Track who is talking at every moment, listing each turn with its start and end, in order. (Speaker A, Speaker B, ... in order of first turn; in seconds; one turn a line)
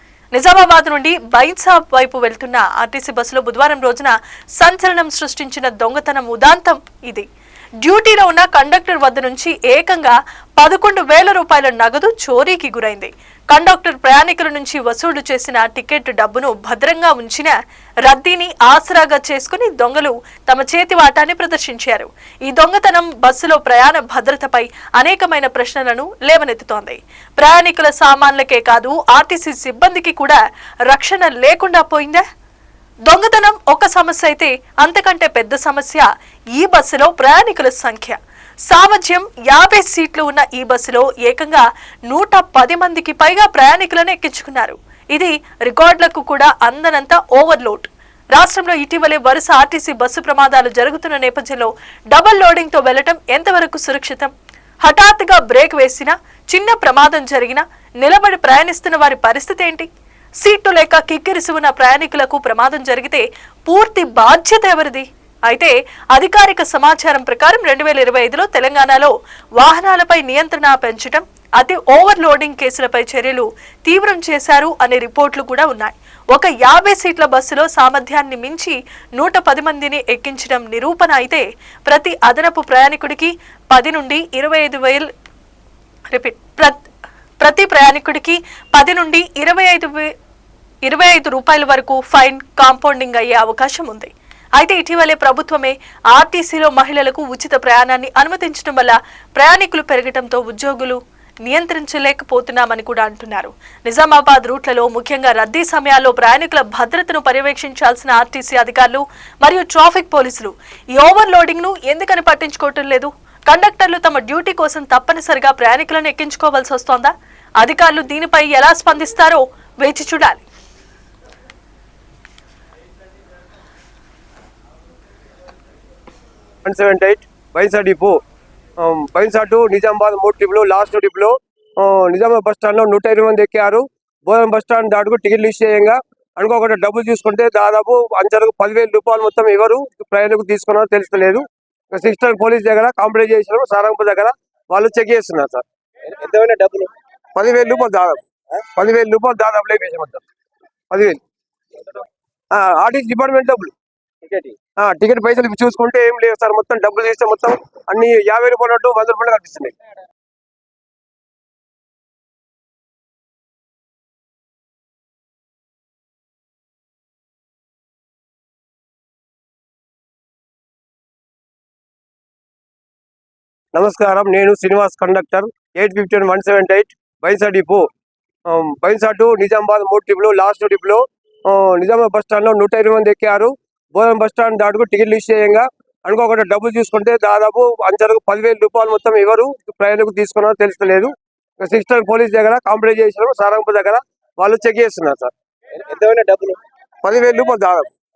Speaker A: 0.3-7.2
Speaker A: 7.8-32.2
Speaker A: 33.1-54.3
Speaker A: 54.8-59.9
Speaker A: 60.4-85.1
Speaker A: 86.1-86.8
Speaker A: 87.4-90.1
Speaker A: 90.8-120.4
Speaker B: 126.6-128.2
Speaker B: 128.8-145.6
Speaker C: 146.1-146.9
Speaker B: 147.3-148.2
Speaker B: 148.7-150.2
Speaker B: 150.9-151.2
Speaker B: 152.5-153.7
Speaker C: 154.2-154.5
Speaker B: 154.8-159.7
Speaker B: 173.7-177.9
Speaker B: 178.5-195.3
Speaker C: 195.8-196.6
Speaker B: 197.0-197.9